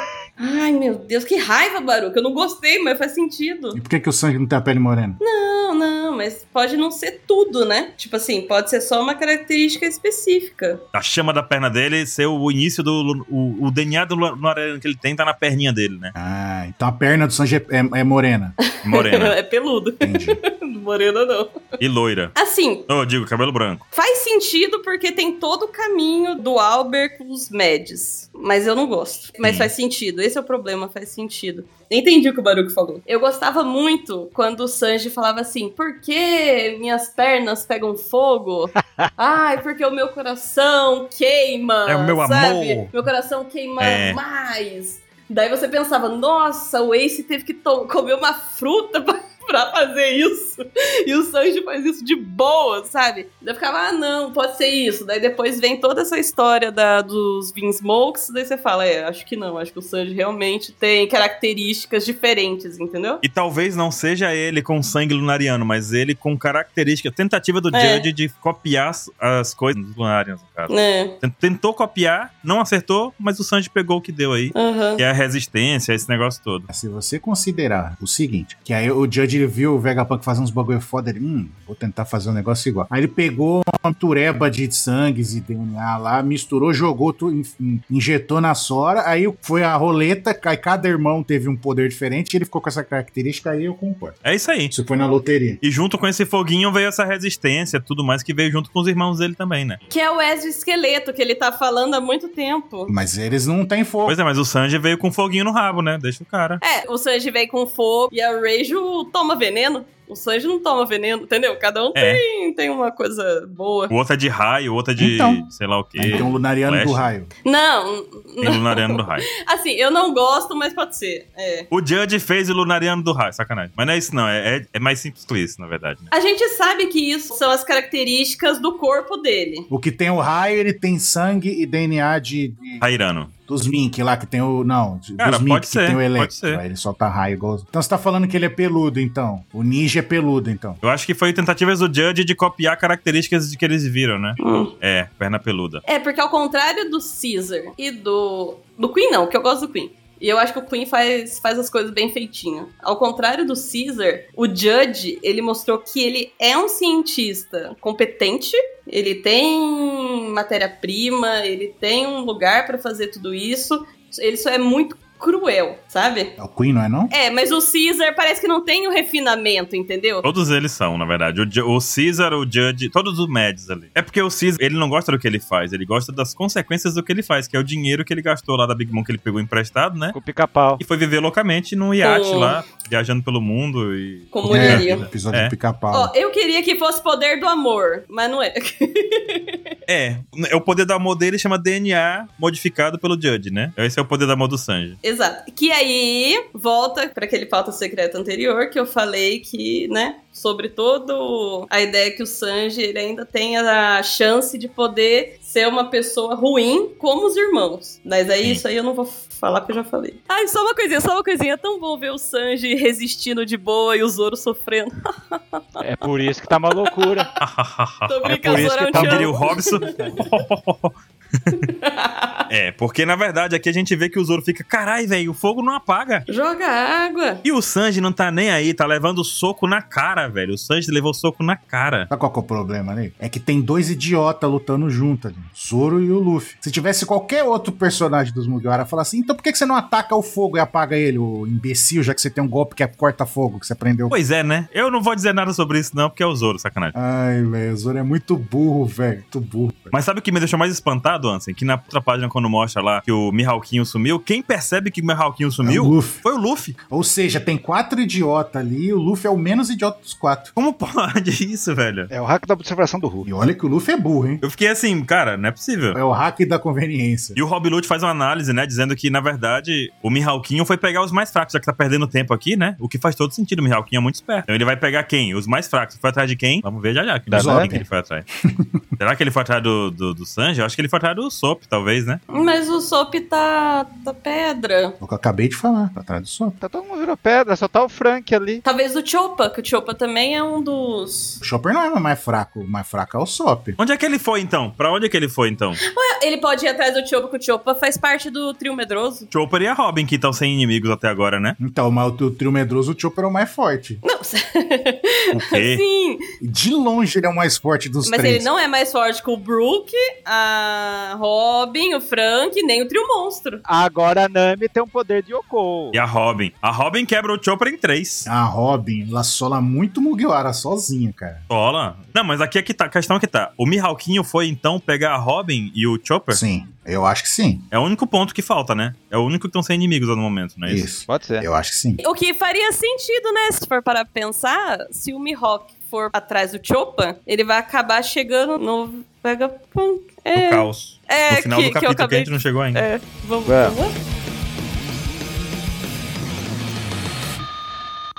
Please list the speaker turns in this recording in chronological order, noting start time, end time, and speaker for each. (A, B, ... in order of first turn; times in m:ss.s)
0:00.4-0:03.8 A
0:03.7-0:05.2 B
0:05.2-0:10.8 A
0:10.9-0:16.1 C
0:16.2-0:18.6 B
0:18.6-0:21.6 A
0:18.8-0:19.4 C
0:20.0-0:20.4 B
0:21.8-0:22.4 C
0:22.4-0:22.9 A
0:22.9-0:23.8 C
0:23.9-1:03.2 A
0:29.4-0:29.7 C
0:41.9-0:42.9 C
0:43.8-0:44.2 C
1:03.2-1:16.7 C
1:07.7-1:08.1 A
1:10.7-1:11.2 A
1:14.6-1:15.0 A
1:16.7-1:34.2 B
1:34.2-1:34.7 C
1:34.7-1:35.6 B
1:35.6-1:39.8 C
1:39.9-1:42.9 A
1:42.9-1:44.2 B
1:44.1-1:46.6 C
1:46.6-1:53.9 A
1:52.0-1:52.2 C
1:53.9-1:57.1 C
1:55.0-1:55.4 B
1:56.0-1:57.3 B
1:57.4-2:01.7 A
1:58.4-1:59.3 C
2:01.7-2:06.1 C
2:06.1-2:09.7 A
2:09.7-2:12.8 B
2:12.8-2:13.3 C
2:13.5-2:20.8 B
2:15.2-2:16.6 C
2:20.8-2:25.8 C
2:24.4-2:24.7 A
2:25.9-2:46.3 A
2:46.4-2:47.1 B
2:47.1-2:50.3 A
2:50.2-3:00.2 C
3:00.1-3:00.8 D
3:00.8-3:05.5 C
3:02.0-3:02.6 A
3:04.3-3:05.1 A
3:04.4-3:06.1 B
3:05.9-3:09.6 A
3:09.9-3:15.0 C
3:15.0-3:35.8 A
3:35.8-3:37.3 D
3:36.7-3:37.4 A
3:37.4-3:41.7 C
3:38.1-3:40.2 A
3:38.3-3:40.2 D
3:41.6-3:42.4 A
3:42.5-3:46.2 C
3:46.3-3:47.4 A
3:47.4-3:52.1 C
3:52.1-4:04.2 B
4:04.1-4:06.9 C
4:06.9-4:10.0 B
4:09.9-4:16.8 C
4:15.6-4:16.2 B
4:16.9-4:20.5 B
4:20.6-4:22.1 C
4:22.1-4:23.3 D
4:23.2-4:24.4 B
4:24.4-4:26.0 C
4:25.9-4:27.4 B
4:27.4-4:38.2 C
4:37.3-4:37.8 D
4:37.3-4:37.9 B
4:38.4-4:38.8 B
4:39.0-4:42.2 C
4:42.3-4:45.0 A
4:45.0-4:46.6 B
4:46.6-4:48.6 D
4:48.6-4:51.4 A
4:51.4-4:53.8 B
4:53.8-4:55.8 C
4:55.8-4:59.3 A
4:59.3-5:01.6 C
5:01.6-5:04.0 B
5:04.0-5:06.2 A
5:05.3-5:05.8 C
5:06.4-5:08.5 B
5:08.0-5:13.6 A
5:13.7-5:16.0 D
5:15.9-5:18.3 C
5:18.3-5:21.4 B
5:21.5-5:26.4 C
5:26.3-5:27.7 B
5:27.7-5:30.9 C
5:30.7-5:32.0 B
5:31.1-5:31.5 D
5:32.0-5:44.0 A
5:40.4-5:42.8 C
5:43.5-5:43.8 D